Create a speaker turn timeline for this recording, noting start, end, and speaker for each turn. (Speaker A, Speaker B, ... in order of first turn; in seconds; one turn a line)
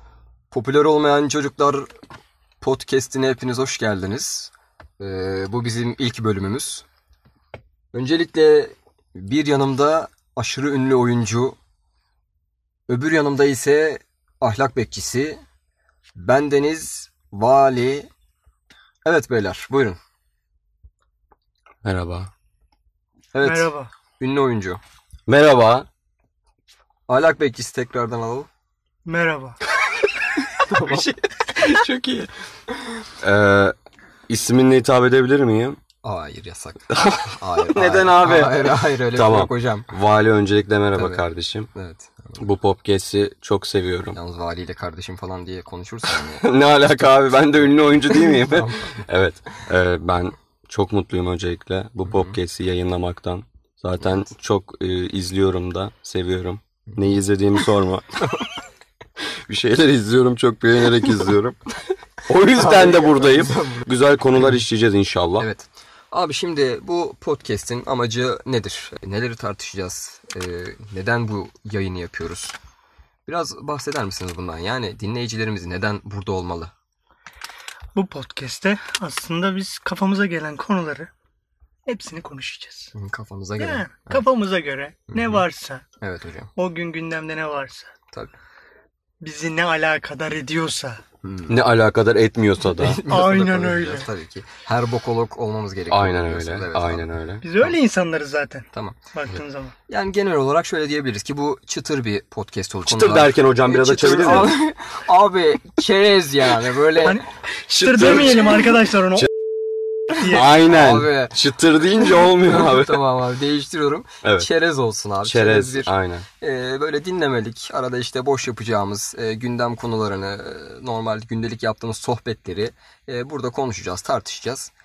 Speaker A: 0.5-1.9
Speaker A: 2.6-6.8
Speaker A: 7.9-11.6
Speaker A: 12.9-15.4
Speaker A: 16.1-18.1
Speaker A: 19.1-20.0
Speaker B: 21.8-22.3
Speaker A: 23.3-24.8
Speaker C: 23.4-23.9
Speaker B: 25.3-25.9
Speaker A: 27.1-28.5
Speaker C: 29.1-29.6
Speaker A: 30.7-31.1
Speaker B: 30.7-32.3
Speaker B: 33.2-33.8
Speaker B: 34.3-35.8
Speaker A: 36.0-39.9
Speaker B: 36.9-41.7
Speaker A: 41.0-41.2
Speaker A: 41.7-42.4
Speaker B: 42.4-44.2
Speaker A: 44.1-46.5
Speaker B: 46.4-58.1
Speaker A: 48.1-48.9
Speaker A: 52.1-52.4
Speaker B: 59.5-61.6
Speaker B: 62.2-65.5
Speaker A: 62.4-63.9
Speaker A: 65.4-72.5
Speaker A: 73.3-76.7
Speaker C: 78.0-81.1
Speaker C: 81.9-82.9
Speaker A: 82.9-84.2
Speaker C: 83.6-85.8
Speaker A: 85.1-85.5
Speaker A: 86.0-86.5
Speaker C: 86.6-87.9
Speaker C: 89.2-91.0
Speaker A: 91.2-91.6
Speaker B: 91.5-93.0
Speaker A: 92.6-97.1
Speaker C: 93.1-94.1
Speaker B: 95.9-97.4
Speaker C: 97.4-99.7
Speaker A: 98.7-99.0
Speaker A: 99.9-107.2
Speaker B: 102.8-104.6
Speaker B: 107.7-109.3
Speaker C: 107.8-109.3
Speaker B: 110.1-113.0
Speaker C: 110.2-110.5
Speaker A: 110.7-111.4
Speaker A: 112.0-124.7
Speaker B: 114.2-114.5
Speaker B: 115.2-116.3